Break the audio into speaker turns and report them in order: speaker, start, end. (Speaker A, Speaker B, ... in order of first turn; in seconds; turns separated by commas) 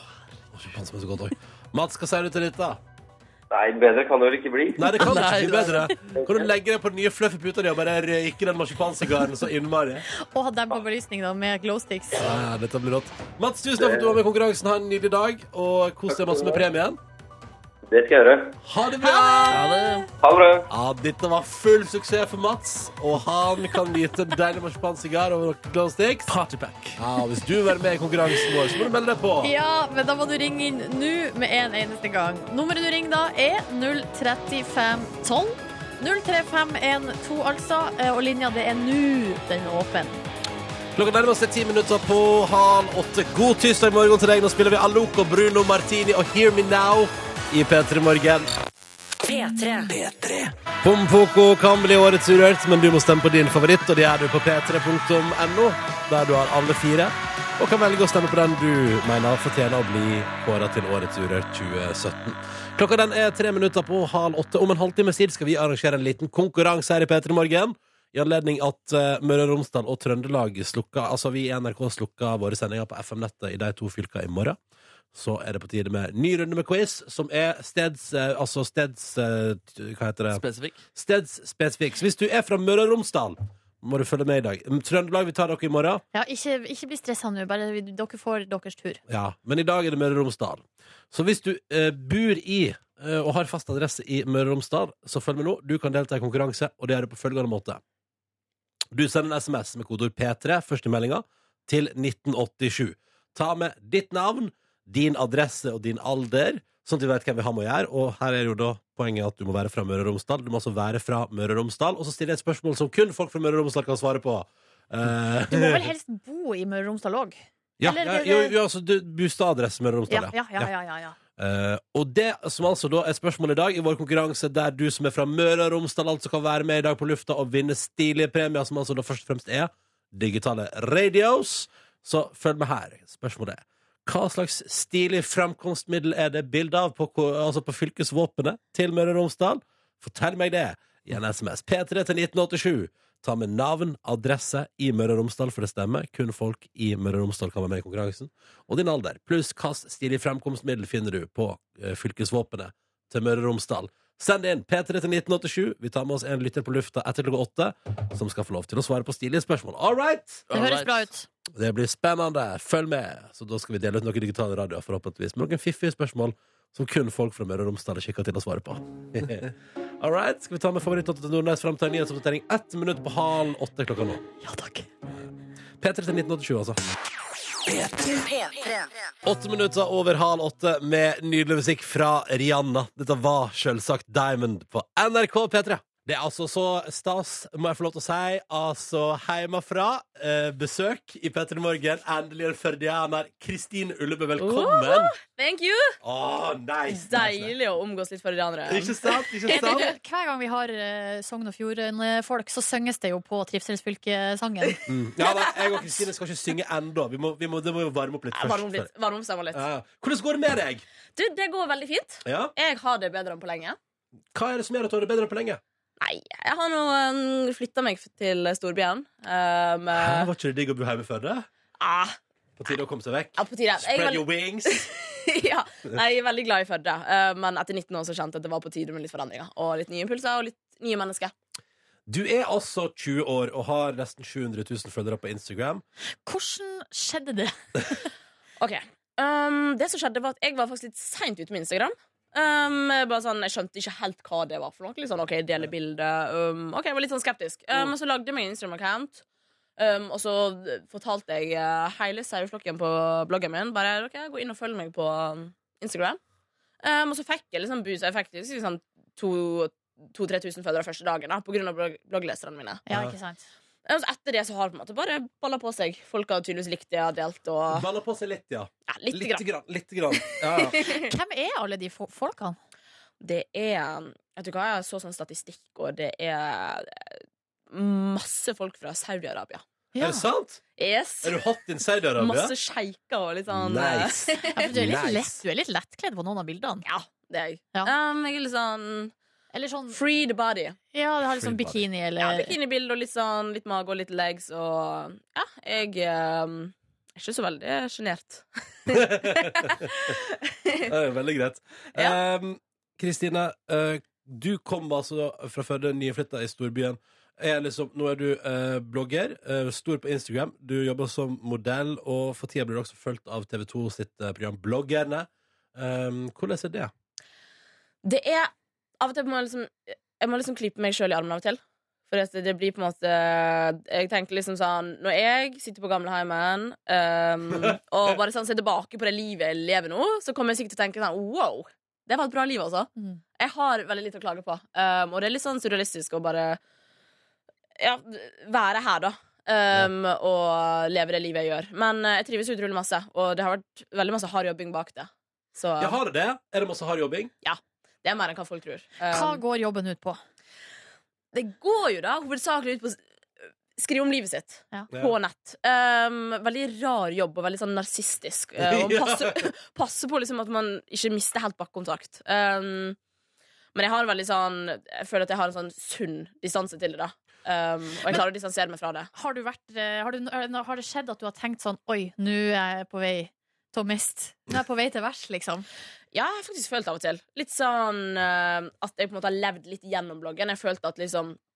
Speaker A: 0.5-2.8, Speaker B: 3.5-4.9, Speaker A: 4.8-10.1, Speaker C: 4.9-5.9, Speaker B: 6.2-6.5, Speaker D: 10.2-12.3, Speaker A: 12.2-17.0, Speaker B: 13.8-14.1, Speaker B: 16.1-16.6, Speaker B: 17.9-18.6, Speaker A: 18.6-19.6, Speaker D: 19.0-20.1, Speaker C: 19.5-20.1, Speaker B: 20.2-20.7, Speaker A: 20.7-26.3, Speaker C: 26.3-27.0, Speaker A: 27.0-29.5, Speaker D: 29.4-40.2, Speaker A: 41.0-48.5, Speaker E: 49.2-50.5, Speaker A: 50.8-74.6, Speaker A: 75.1-80.4, Speaker C: 80.3-80.8, Speaker A: 80.9-86.0, Speaker D: 86.1-89.0, Speaker A: 89.1-97.8, Speaker A: 98.9-115.9, Speaker D: 115.5-118.5, Speaker A: 117.8-120.7, Speaker D: 120.1-121.1, Speaker A: 121.4-160.5, Speaker C: 160.5-161.1, Speaker D: 160.5-161.3, Speaker A: 161.5-174.2, Speaker D: 174.4-174.9, Speaker A: 175.8-176.8, Speaker E: 177.7-179.1, Speaker A: 179.2-195.1, Speaker F: 194.4-196.0, Speaker A: 196.0-197.5, Speaker F: 196.9-199.9, Speaker A: 198.7-199.9, Speaker D: 199.5-204.8, Speaker A: 204.9-208.9, Speaker F: 208.3-209.6, Speaker A: 209.5-210.8, Speaker F: 211.2-213.8, Speaker A: 212.2-212.5, Speaker A: 214.3-215.6, Speaker F: 216.0-220.3, Speaker A: 219.9-221.5, Speaker F: 221.8-222.2, Speaker A: 222.6-224.8, Speaker F: 223.4-231.3, Speaker A: 232.1-235.8, Speaker D: 236.2-238.1, Speaker F: 238.6-249.2, Speaker F: 249.8-256.2, Speaker F: 256.8-262.8, Speaker D: 262.9-263.4, Speaker F: 263.9-267.9, Speaker A: 267.7-270.8, Speaker F: 268.9-269.4, Speaker F: 270.2-271.1, Speaker D: 270.9-272.6, Speaker F: 273.2-277.1, Speaker F: 277.7-279.6, Speaker D: 279.9-280.2, Speaker A: 280.0-280.6, Speaker F: 280.8-281.4, Speaker A: 281.2-282.5, Speaker F: 282.2-284.7, Speaker A: 283.5-285.4, Speaker D: 284.6-286.9, Speaker F: 286.8-289.1, Speaker D: 289.5-290.0, Speaker F: 289.9-290.8, Speaker D: 290.9-292.5, Speaker A: 291.3-291.9, Speaker F: 292.2-300.9, Speaker A: 298.9-299.9, Speaker A: 300.8-316.9, Speaker F: 318.0-336.6, Speaker F: 337.8-345.9, Speaker A: 345.8-347.3, Speaker F: 347.4-349.4, Speaker D: 349.1-350.2, Speaker F: 351.3-353.0, Speaker F: 353.8-363.0, Speaker A: 354.9-355.1, Speaker A: 358.6-359.5, Speaker F: 363.7-369.1, Speaker D: 369.1-375.7, Speaker F: 376.1-381.4